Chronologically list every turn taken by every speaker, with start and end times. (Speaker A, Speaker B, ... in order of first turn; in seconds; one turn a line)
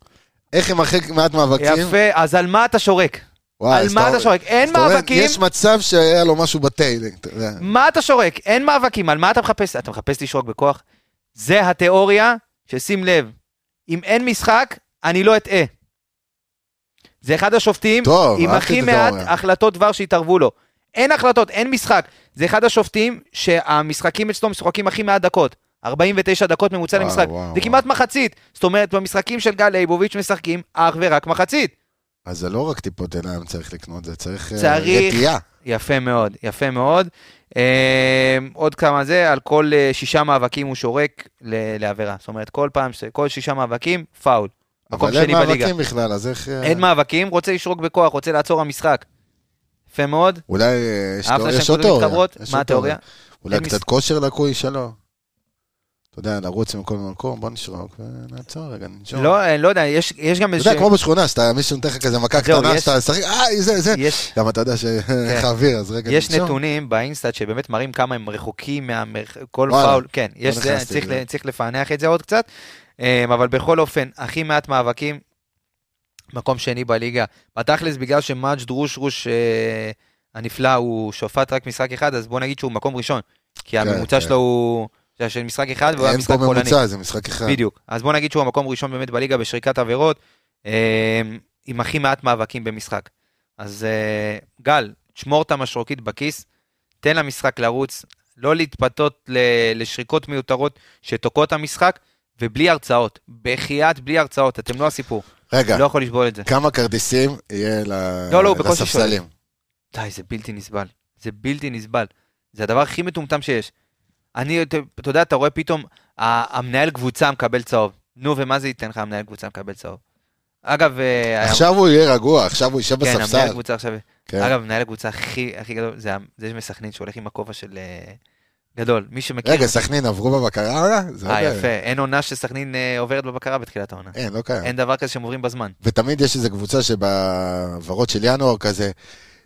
Speaker A: 0.5-1.9
Speaker B: 1.6-5.4
Speaker A: 3.6-7.7
Speaker B: 7.6-10.8
Speaker B: 11.4-13.3
Speaker B: 13.9-15.7
Speaker B: 17.2-31.7
Speaker A: 18.0-19.3
Speaker A: 26.9-27.8
Speaker A: 32.3-35.4
Speaker B: 34.6-45.7
Speaker A: 44.9-46.8
Speaker B: 46.6-49.0
Speaker B: 49.9-50.4
Speaker A: 50.5-55.0
Speaker B: 51.3-53.0
Speaker B: 53.5-53.8
Speaker A: 56.1-59.3
Speaker B: 59.1-60.9
Speaker A: 60.6-66.6
Speaker B: 62.3-62.9
Speaker B: 63.9-64.3
Speaker B: 66.1-72.5
Speaker A: 69.7-71.2
Speaker B: 73.0-75.2
Speaker B: 76.3-86.8
Speaker A: 83.8-84.3
Speaker A: 86.0-87.6
Speaker B: 87.5-96.4
Speaker B: 97.0-106.5
Speaker A: 105.5-105.8
Speaker A: 106.5-109.3
Speaker B: 108.3-109.2
Speaker B: 109.9-113.7
Speaker B: 114.4-120.0
Speaker B: 120.7-121.7
Speaker A: 121.4-123.6
Speaker B: 123.0-128.2
Speaker A: 124.3-124.5
Speaker B: 128.8-129.8
Speaker A: 129.4-131.7
Speaker B: 131.3-135.8
Speaker A: 134.1-134.7
Speaker A: 135.8-138.9